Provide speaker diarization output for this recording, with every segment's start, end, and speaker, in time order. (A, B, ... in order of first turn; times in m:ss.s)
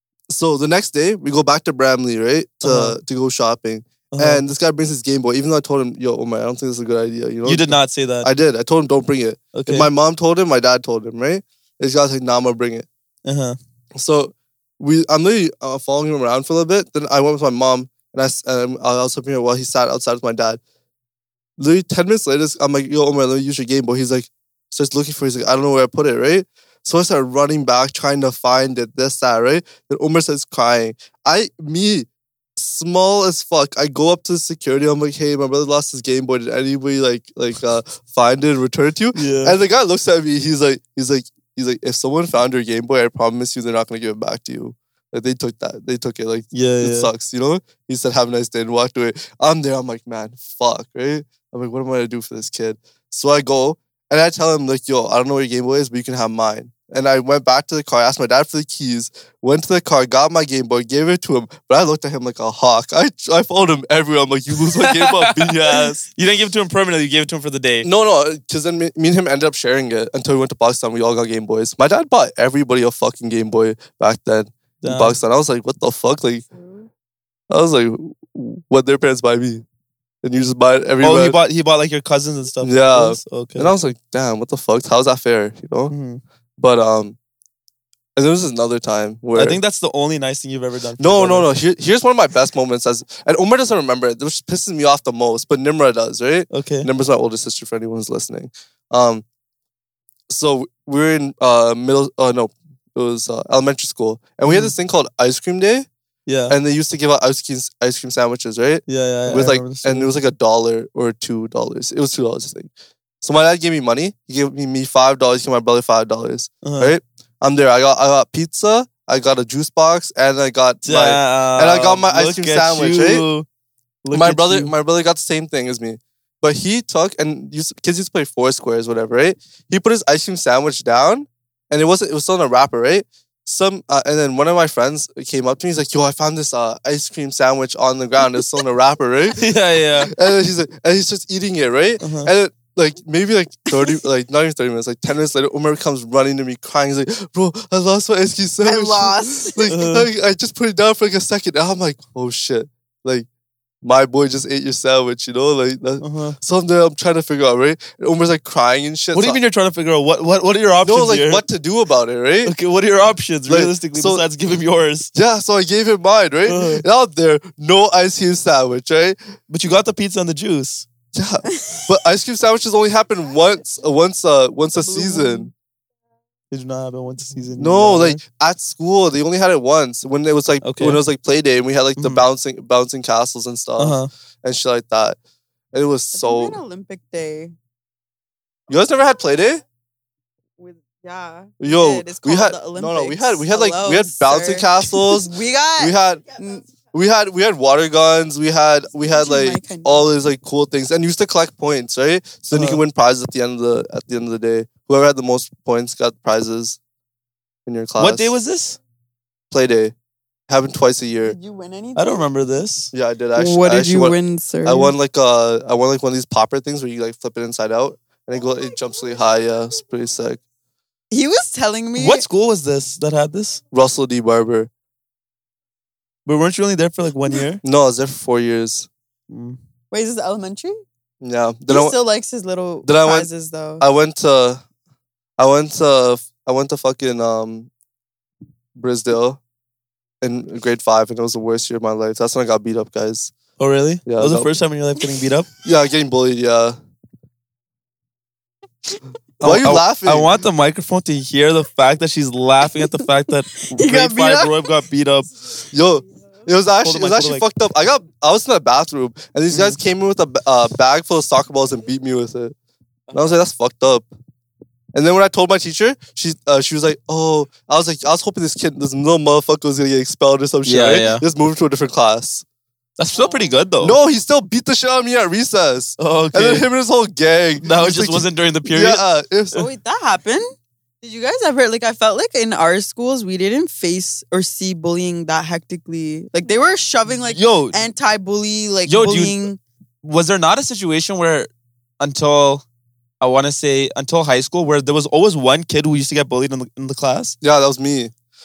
0:00.3-0:12.9 A
0:02.6-0:03.0 B
0:04.1-0:04.4 B
0:07.4-0:08.3 B
0:09.5-0:09.9 B
0:13.2-0:13.6 B
0:14.0-0:20.6 A
0:21.6-1:06.0 A
0:39.1-0:39.6 B
0:46.5-0:47.1 B
1:04.8-1:07.9 B
1:07.8-1:16.4 A
1:14.8-1:15.2 B
1:16.5-1:16.9 C
1:17.5-1:19.6 A
1:20.2-1:21.4 A
1:21.0-1:23.7 B
1:22.6-1:25.9 A
1:25.9-1:26.2 B
1:26.6-1:27.2 A
1:28.2-1:29.6 A
1:29.3-1:31.5 B
1:31.0-1:39.2 A
1:36.5-1:36.9 B
1:40.3-1:45.9 A
1:44.5-1:44.7 B
1:46.3-1:46.6 B
1:46.5-1:52.7 A
1:48.9-1:50.1 B
1:53.2-2:03.2 A
1:56.6-1:56.9 B
2:00.8-2:03.4 B
2:04.0-2:04.7 B
2:04.1-2:19.4 A
2:19.4-2:20.1 B
2:20.0-2:33.3 A
2:22.0-2:22.3 B
2:28.6-2:29.7 C
2:29.7-2:30.1 B
2:33.8-2:39.4 A
2:36.0-2:36.4 B
2:39.1-2:41.4 B
2:40.8-2:42.5 A
2:42.4-2:45.1 B
2:43.5-2:44.2 A
2:45.1-2:49.2 A
2:46.5-2:46.8 B
2:49.5-2:50.8 B
2:51.1-2:55.5 A
2:51.5-2:51.9 C
2:54.8-2:55.5 C
2:56.5-2:58.2 B
2:57.6-3:05.2 A
3:00.6-3:01.0 B
3:02.0-3:02.2 B
3:03.8-3:04.1 B
3:05.7-3:06.6 A
3:06.1-3:07.5 C
3:08.7-3:09.6 A
3:10.6-3:16.7 C
3:11.6-3:26.8 A
3:19.0-3:20.1 C
3:22.5-3:22.8 B
3:27.6-3:28.3 A
3:28.0-3:28.8 B
3:29.5-3:29.9 A
3:30.5-3:31.4 A
3:31.2-3:32.2 C
3:32.0-3:32.9 B
3:32.9-3:40.4 A
3:33.4-3:34.9 C
3:41.1-3:42.2 C
3:42.0-3:43.6 B
3:43.7-3:44.7 A
3:46.2-3:47.6 B
3:47.6-3:48.9 A
3:49.3-3:49.6 B
3:49.9-3:50.8 C
3:51.2-3:51.9 A
3:51.7-3:53.8 C
3:52.8-3:53.3 A
3:53.8-3:54.6 A
3:55.4-3:57.7 A
3:58.7-3:59.4 A
4:00.2-4:03.3 A
4:03.6-4:05.5 B
4:04.0-4:04.6 A
4:05.6-4:06.8 A
4:09.4-4:10.3 A
4:09.4-4:15.3 B
4:13.5-4:14.7 C
4:15.7-4:22.5 A
4:16.8-4:17.4 B
4:19.5-4:19.8 B
4:23.1-4:23.4 B
4:23.1-4:24.1 A
4:24.9-4:32.4 A
4:30.6-4:31.2 B
4:33.0-4:34.0 B
4:33.2-4:33.4 C
4:33.8-4:39.6 A
4:36.0-4:36.7 B
4:37.6-4:39.0 B
4:39.5-4:40.5 C
4:41.0-4:49.6 C
4:47.2-4:47.8 B
4:48.9-4:49.4 B
4:50.0-4:51.5 B
4:52.0-4:52.6 B
4:53.2-4:57.4 B
4:57.4-4:58.1 A